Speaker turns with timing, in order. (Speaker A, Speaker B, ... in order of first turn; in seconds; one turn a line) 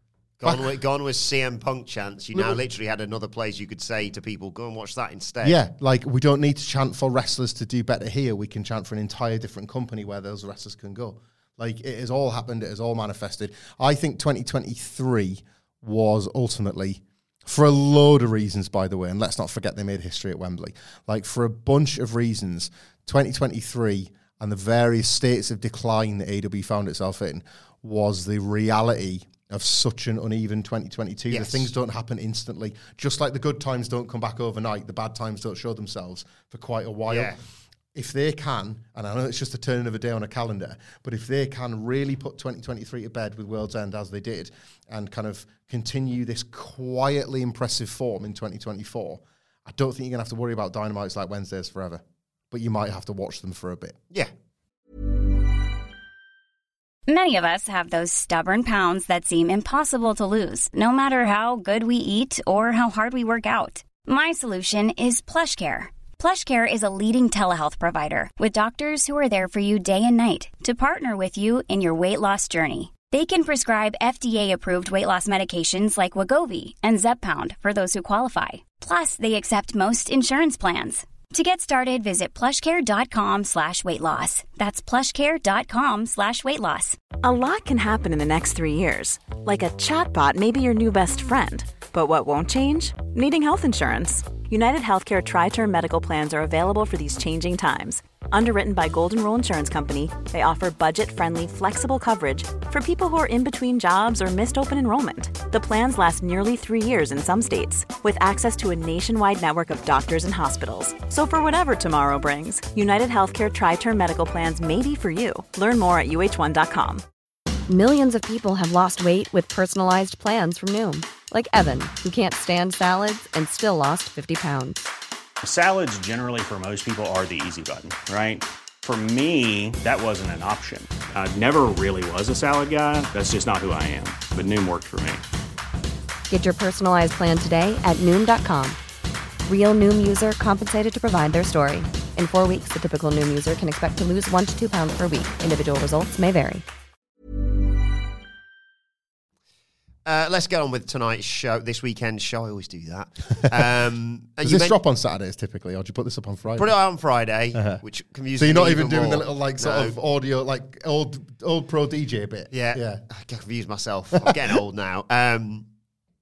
Speaker A: 0.4-5.6
Speaker B: 0.4-0.7
Speaker B: 5.4-37.4
Speaker A: 31.3-31.7
Speaker A: 37.1-37.4
Speaker B: 37.9-54.0
Speaker C: 57.1-87.0
Speaker D: 87.2-117.0
Speaker E: 117.7-124.9
Speaker F: 125.4-135.2
Speaker E: 136.3-138.8
Speaker E: 139.4-146.6
Speaker A: 150.0-154.8
Speaker B: 154.4-156.7
Speaker A: 156.6-159.9
Speaker B: 157.5-157.8
Speaker B: 158.4-163.0
Speaker A: 162.5-165.7